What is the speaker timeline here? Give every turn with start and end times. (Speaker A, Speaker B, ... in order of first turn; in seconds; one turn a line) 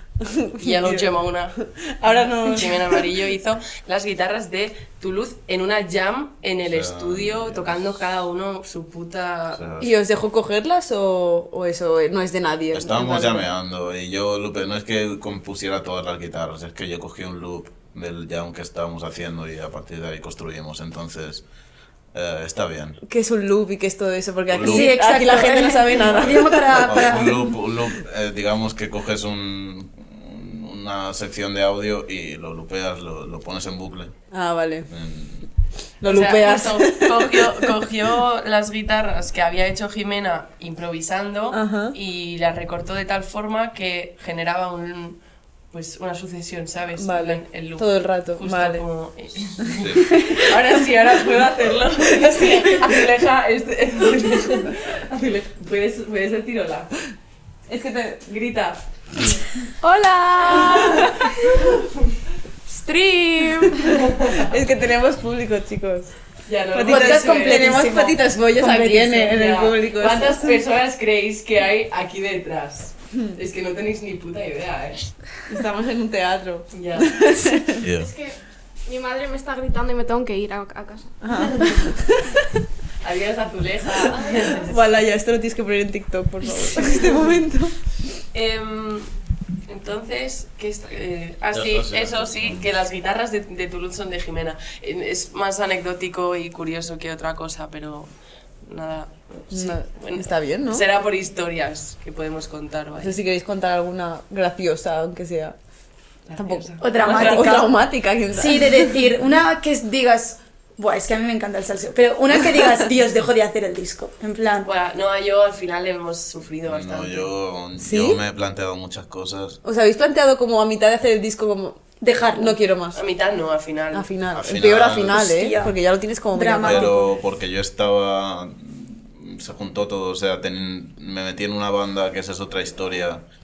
Speaker A: 0.2-1.1
Speaker B: 0.6-9.6
Speaker A: 1.6-3.0
Speaker C: 6.7-7.8
Speaker C: 9.5-9.9
Speaker A: 9.8-13.4
Speaker C: 12.7-21.4
Speaker C: 22.1-23.0
Speaker A: 23.0-27.0
Speaker C: 24.5-24.9
Speaker D: 24.6-27.5
Speaker C: 26.0-34.1
Speaker A: 34.3-34.9
Speaker C: 34.9-35.5
Speaker A: 36.0-37.8
Speaker B: 36.0-45.2
Speaker A: 41.5-42.0
Speaker B: 45.7-56.9
Speaker A: 47.0-48.8
Speaker C: 49.8-50.0
Speaker A: 50.0-50.5
Speaker A: 52.1-53.0
Speaker A: 57.7-58.2
Speaker B: 58.3-59.3
Speaker B: 60.4-61.9
Speaker A: 60.5-61.3
Speaker B: 63.1-64.6
Speaker A: 64.2-66.1
Speaker B: 66.5-67.8
Speaker A: 66.7-70.6
Speaker D: 66.8-69.3
Speaker B: 69.3-75.1
Speaker A: 75.5-77.8
Speaker B: 76.7-77.2
Speaker C: 77.8-78.1
Speaker E: 78.8-81.0
Speaker A: 81.2-82.4
Speaker B: 81.4-81.9
Speaker B: 83.0-84.8
Speaker A: 84.1-87.8
Speaker B: 88.3-89.1
Speaker B: 89.7-98.1
Speaker C: 91.5-92.7
Speaker B: 98.6-103.1
Speaker A: 99.5-100.8
Speaker A: 103.0-105.5
Speaker B: 106.3-107.6
Speaker A: 106.3-108.9
Speaker D: 106.8-107.7
Speaker D: 108.3-114.7
Speaker B: 114.6-117.3
Speaker C: 116.7-119.6
Speaker A: 117.8-118.2
Speaker A: 119.6-123.0
Speaker D: 122.0-122.5
Speaker B: 122.9-124.1
Speaker A: 123.9-126.9
Speaker C: 124.3-125.3
Speaker D: 125.1-125.7
Speaker D: 126.3-127.0
Speaker C: 126.6-133.2